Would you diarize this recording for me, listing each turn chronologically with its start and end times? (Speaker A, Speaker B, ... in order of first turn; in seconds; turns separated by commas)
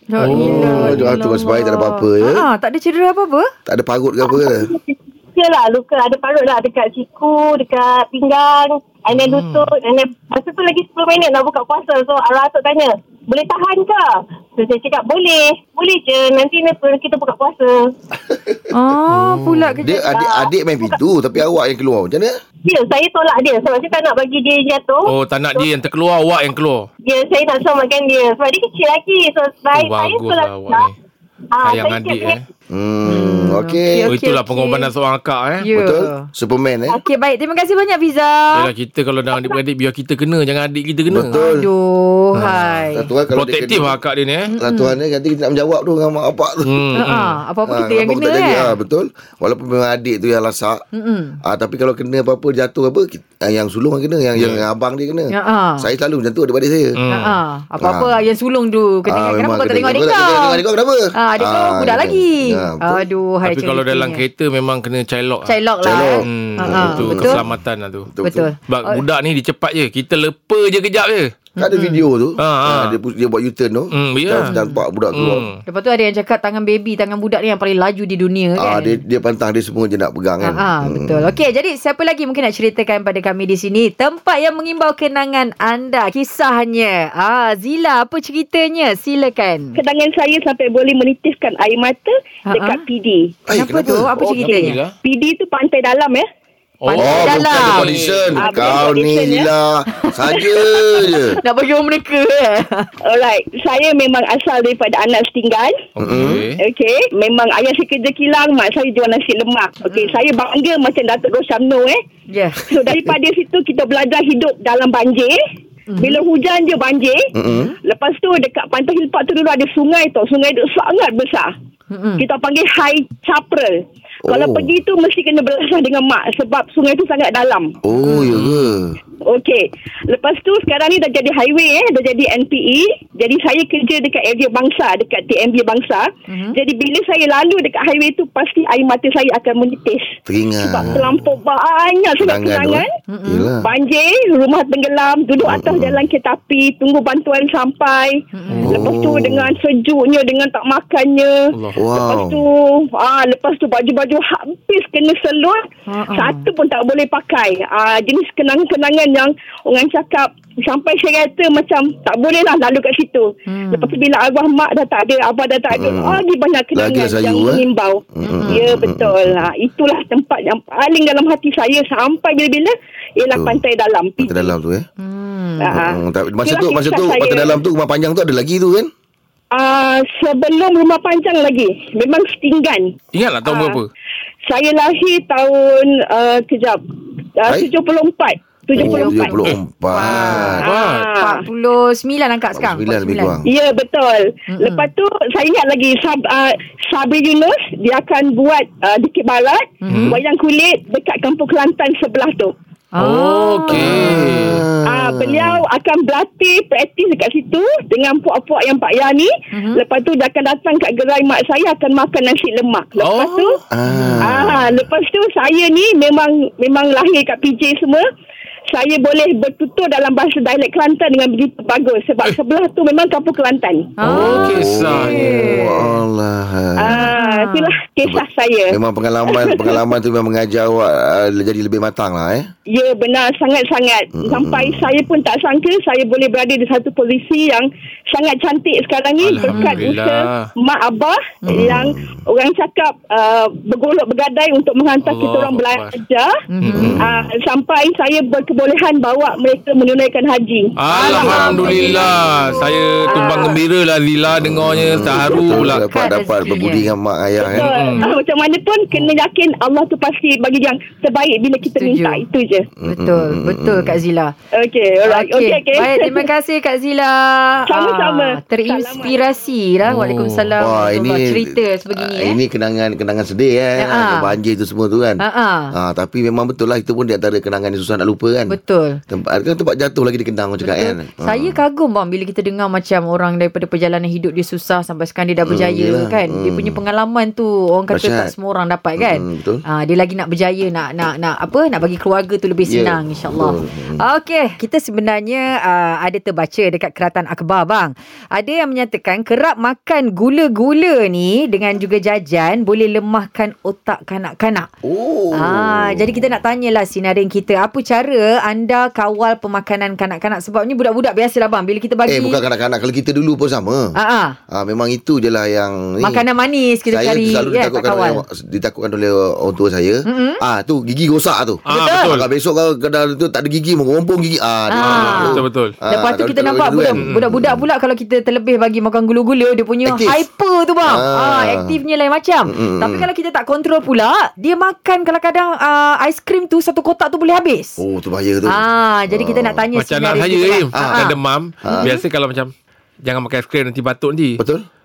Speaker A: 0.1-3.5, Speaker B: 0.2-1.0, Speaker C: 0.2-2.5, Speaker C: 3.6-4.7, Speaker D: 4.2-17.9, Speaker B: 9.1-9.7, Speaker C: 18.3-18.6, Speaker A: 18.7-20.1, Speaker B: 19.1-19.7, Speaker C: 19.8-22.4, Speaker D: 20.1-20.9, Speaker D: 22.6-25.7, Speaker B: 25.1-26.9, Speaker D: 27.0-30.9, Speaker B: 29.7-30.9, Speaker D: 31.5-32.4, Speaker B: 31.6-32.4, Speaker C: 32.7-34.1, Speaker A: 33.0-34.9, Speaker B: 34.1-35.6, Speaker A: 35.6-36.3, Speaker C: 35.7-37.0, Speaker A: 36.9-38.7, Speaker B: 38.5-41.4, Speaker C: 41.1-41.7, Speaker A: 41.3-43.1, Speaker B: 42.3-42.7, Speaker C: 42.4-44.0, Speaker B: 43.3-44.5, Speaker A: 44.5-44.9, Speaker C: 44.6-46.7, Speaker B: 46.6-47.4, Speaker A: 47.0-48.7, Speaker C: 47.6-50.8, Speaker A: 50.9-51.4, Speaker C: 51.4-57.0, Speaker B: 54.4-54.6, Speaker A: 55.3-55.9, Speaker B: 57.0-57.4, Speaker A: 57.1-60.6, Speaker C: 57.8-58.2, Speaker C: 59.0-63.1, Speaker A: 61.2-64.2, Speaker B: 63.4-65.5, Speaker A: 65.5-67.4, Speaker C: 65.8-67.5, Speaker B: 66.2-68.1, Speaker C: 68.1-68.5, Speaker A: 68.2-69.0, Speaker B: 68.7-71.3, Speaker C: 71.6-75.5, Speaker A: 71.6-72.0, Speaker B: 72.4-73.0, Speaker B: 73.9-74.5, Speaker A: 74.4-74.8, Speaker B: 75.1-75.6, Speaker A: 75.7-79.0, Speaker C: 78.6-81.3, Speaker A: 80.4-89.8, Speaker E: 89.8-93.4, Speaker A: 92.5-92.8, Speaker C: 93.5-94.1, Speaker A: 93.5-94.8, Speaker B: 94.2-94.9, Speaker E: 94.4-96.2, Speaker B: 96.8-98.4, Speaker A: 96.9-97.9, Speaker C: 96.9-101.4, Speaker E: 98.4-99.5, Speaker A: 101.1-102.9, Speaker E: 103.0-105.8, Speaker B: 106.0-106.6, Speaker C: 106.0-106.4, Speaker E: 106.6-112.0, Speaker A: 109.9-110.2, Speaker A: 112.3-112.6, Speaker E: 112.7-115.4, Speaker A: 115.9-116.2, Speaker E: 116.0-117.3, Speaker C: 117.3-117.7, Speaker A: 117.5-117.7, Speaker E: 117.8-121.5, Speaker A: 121.9-122.2, Speaker E: 122.2-127.8, Speaker C: 124.3-124.7, Speaker C: 127.8-129.0, Speaker A: 128.0-128.3, Speaker B: 128.2-128.7, Speaker E: 129.2-142.9, Speaker A: 136.3-136.6, Speaker C: 140.3-141.1, Speaker C: 142.2-143.7, Speaker A: 143.1-143.5, Speaker E: 143.6-174.5, Speaker C: 145.4-146.0, Speaker A: 148.3-148.7, Speaker B: 148.5-148.8, Speaker C: 148.6-149.6, Speaker B: 151.5-151.8, Speaker C: 151.8-152.4, Speaker A: 155.9-156.5, Speaker A: 163.5-164.0, Speaker C: 165.7-166.2, Speaker C: 166.7-167.6, Speaker C: 168.2-169.5, Speaker A: 168.2-168.6, Speaker C: 173.3-173.6, Speaker C: 174.2-174.8, Speaker A: 175.0-175.7, Speaker E: 175.6-177.5, Speaker C: 175.7-178.9, Speaker E: 179.5-183.8, Speaker B: 183.1-183.9, Speaker E: 184.5-186.8, Speaker E: 187.4-189.3, Speaker C: 188.7-190.6, Speaker A: 188.7-193.4, Speaker B: 190.1-191.1, Speaker E: 190.6-191.4, Speaker C: 192.5-193.5, Speaker E: 193.4-202.5, Speaker A: 194.5-194.9, Speaker A: 199.8-200.1, Speaker B: 199.9-200.2, Speaker A: 202.9-204.2, Speaker B: 203.0-204.6, Speaker C: 203.7-205.6, Speaker E: 204.9-213.6, Speaker A: 209.5-209.8, Speaker B: 213.0-213.6, Speaker C: 213.7-214.8, Speaker A: 213.9-214.2, Speaker E: 214.2-218.0, Speaker E: 218.7-223.9, Speaker A: 224.0-225.9, Speaker C: 224.0-227.0, Speaker B: 224.1-225.3, Speaker E: 226.8-228.8, Speaker A: 226.9-227.7, Speaker C: 228.0-232.5, Speaker E: 229.3-229.8, Speaker E: 232.7-246.4, Speaker C: 234.2-234.9, Speaker B: 239.2-240.5, Speaker A: 239.5-239.8, Speaker C: 241.5-242.2, Speaker B: 245.0-246.0, Speaker A: 246.5-247.0, Speaker B: 246.6-247.0, Speaker C: 246.7-247.3, Speaker E: 247.0-251.9, Speaker B: 250.8-255.8, Speaker C: 250.9-252.7, Speaker A: 251.1-251.4, Speaker E: 253.0-253.6, Speaker A: 253.1-253.5, Speaker C: 254.3-257.7, Speaker A: 255.8-256.9, Speaker E: 257.4-262.7, Speaker B: 257.5-258.1, Speaker A: 261.8-262.2, Speaker C: 262.8-264.0, Speaker A: 262.9-264.3, Speaker E: 264.5-266.3, Speaker A: 265.1-272.4, Speaker E: 267.7-269.2, Speaker B: 269.8-270.5, Speaker C: 270.6-275.2, Speaker A: 273.8-274.3, Speaker A: 275.2-275.7, Speaker C: 275.7-278.6, Speaker A: 278.5-279.0, Speaker C: 279.1-281.6, Speaker A: 280.6-304.7, Speaker C: 285.4-286.8, Speaker C: 287.9-288.3, Speaker C: 289.0-289.6, Speaker C: 292.7-294.0, Speaker C: 304.8-306.3, Speaker A: 305.4-312.4, Speaker C: 312.1-313.9, Speaker A: 313.9-314.4, Speaker C: 314.5-316.2, Speaker A: 316.0-318.2, Speaker C: 316.9-327.6, Speaker A: 320.1-320.4, Speaker A: 321.7-322.1, Speaker B: 321.7-322.3, Speaker A: 324.7-337.8, Speaker B: 324.8-325.7, Speaker B: 327.0-327.2, Speaker C: 329.8-330.2, Speaker C: 330.8-331.7, Speaker C: 332.5-333.1, Speaker C: 337.8-339.6, Speaker A: 338.5-341.1, Speaker B: 339.8-342.5, Speaker C: 340.7-341.1, Speaker C: 341.6-341.9, Speaker A: 341.7-342.0, Speaker B: 343.0-344.4, Speaker C: 344.4-344.6